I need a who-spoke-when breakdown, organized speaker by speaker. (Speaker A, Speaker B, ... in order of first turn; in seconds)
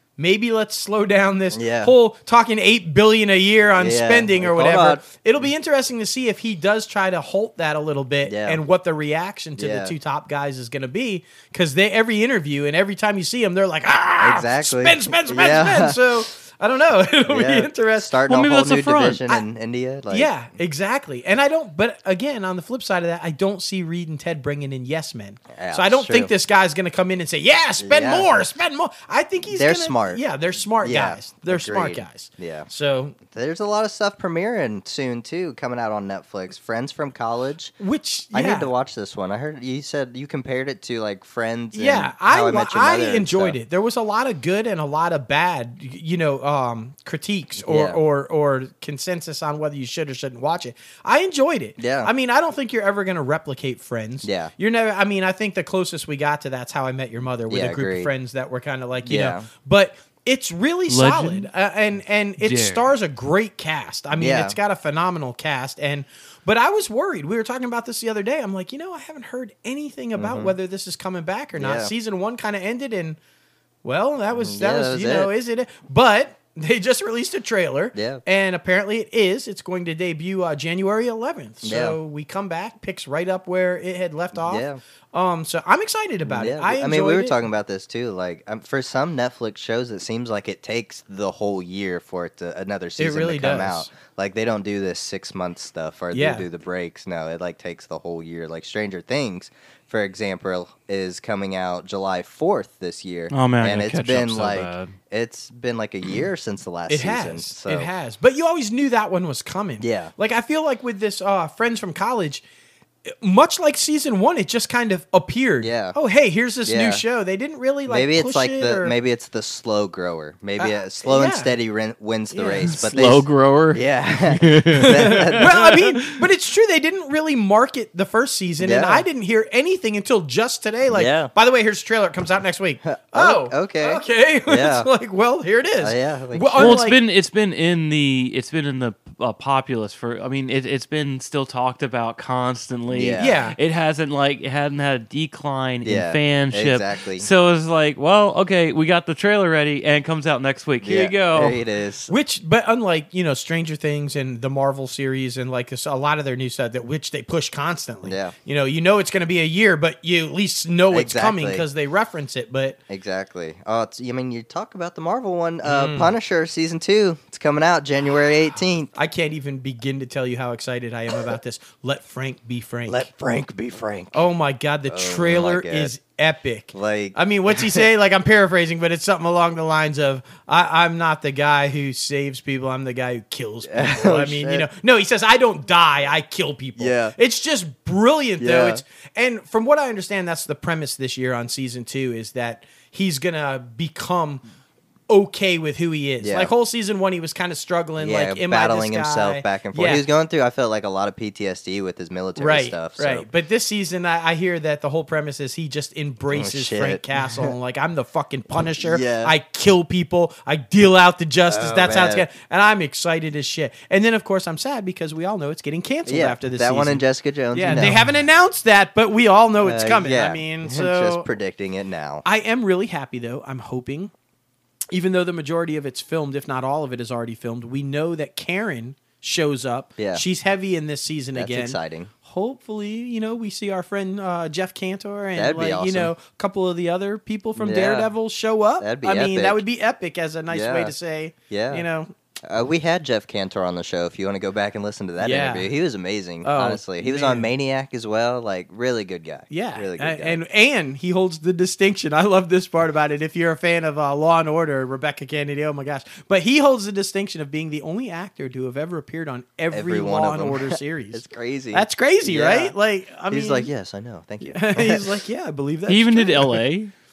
Speaker A: 0.2-18.1, 20.1-33.2, 37.8-38.7, 41.7-73.2, 73.8-87.4, 93.0-93.9, 96.1-96.5, 106.9-112.4, 113.1-118.9, 120.6-121.5, 122.3-122.7, 124.9-137.0, 143.2-143.6, 152.1-162.8, 165.6-166.1, 169.0-173.1, 174.1-194.4, 195.1-200.0, 202.4-221.3, 222.2-224.1, 224.9-242.1, 245.2-245.7, 246.4-247.5, 249.5-263.7, 264.5-266.6
Speaker B: 1.5-1.9, 3.8-5.0, 8.2-8.6, 9.6-9.9, 14.2-16.1, 17.3-20.3, 25.5-26.3, 27.8-28.4, 29.5-30.2, 30.8-32.7, 33.3-37.7, 38.3-43.6, 47.6-48.0, 51.8-52.1, 54.2-54.5, 57.5-58.1, 59.0-59.5, 64.1-64.6, 70.2-70.5, 71.6-71.9, 74.4-75.3, 77.9-78.2, 81.6-82.0, 84.3-84.8, 86.2-107.9, 109.8-110.1, 115.6-116.0, 116.7-117.0, 117.9-125.5, 128.6-129.1, 130.9-131.3, 132.8-134.9, 135.8-136.9, 142.9-143.3, 145.8-147.3, 150.8-152.1, 158.1-158.3, 160.9-161.7, 162.9-168.9, 172.9-174.2, 174.9-175.9, 176.7-177.8, 183.7-184.7, 186.8-187.2, 188.4-188.8, 196.2-196.5, 198.0-203.3, 206.3-207.5, 208.8-209.3, 211.5-212.3, 216.1-218.0, 219.6-222.2, 230.0-230.2, 231.4-232.1, 235.3-236.1, 237.6-238.1, 238.8-239.6, 240.5-240.9, 241.5-241.9, 242.4-250.4, 259.7-262.8, 263.3-265.2
Speaker C: 18.3-19.2, 60.9-61.5, 62.4-62.9, 103.3-104.9, 122.7-125.8, 136.6-151.6, 217.7-218.0, 265.9-266.9